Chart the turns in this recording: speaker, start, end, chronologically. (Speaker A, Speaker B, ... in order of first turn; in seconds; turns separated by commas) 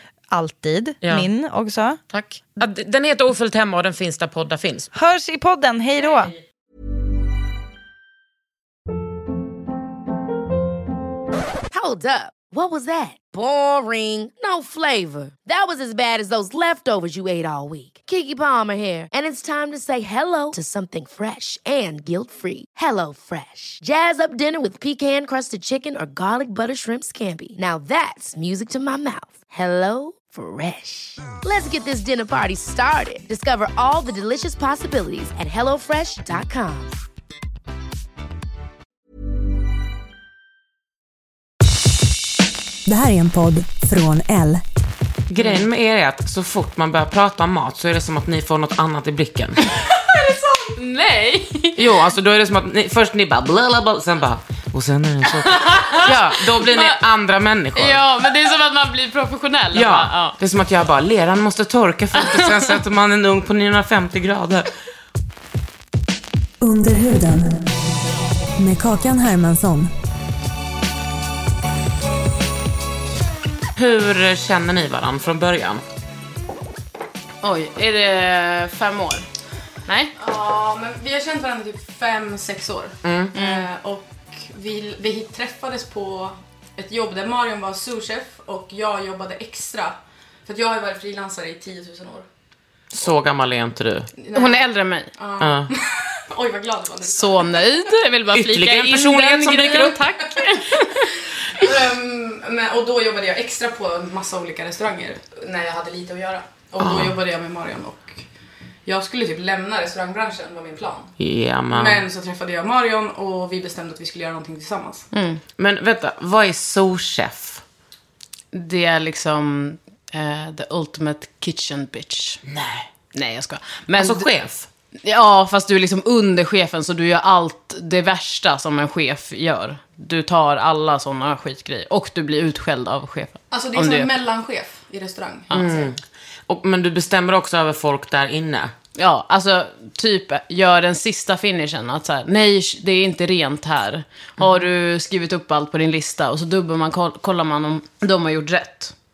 Speaker A: 0.3-2.0, Speaker B: 1.0-1.3, Speaker B: 2.1-4.9, Speaker A: 5.0-6.3, Speaker C: 11.7-37.0, Speaker D: 42.9-44.6, Speaker B: 45.3-49.6, Speaker E: 49.9-51.8, Speaker B: 51.8-58.0, Speaker E: 55.3-57.0, Speaker E: 57.8-60.4, Speaker B: 59.7-64.7, Speaker E: 62.2-62.8, Speaker D: 66.6-67.6, Speaker D: 68.6-69.9, Speaker B: 73.8-75.8, Speaker E: 77.4-79.3, Speaker E: 79.9-80.1, Speaker F: 80.2-92.3, Speaker B: 83.0-83.3, Speaker E: 83.3-83.7, Speaker B: 92.9-94.1, Speaker F: 94.2-97.7, Speaker E: 94.3-95.1, Speaker B: 95.4-95.7, Speaker E: 97.1-101.2, Speaker B: 98.3-100.0, Speaker F: 101.5-108.2, Speaker B: 106.8-107.2, Speaker F: 108.9-111.1, Speaker B: 111.2-112.0, Speaker F: 111.7-115.1, Speaker E: 115.1-115.4, Speaker B: 115.6-117.6, Speaker E: 118.5-122.4, Speaker B: 122.5-122.9, Speaker E: 123.1-124.3, Speaker B: 124.0-124.7, Speaker E: 125.0-134.1, Speaker F: 133.5-135.9, Speaker B: 135.5-138.7, Speaker E: 138.9-148.9, Speaker B: 144.4-144.7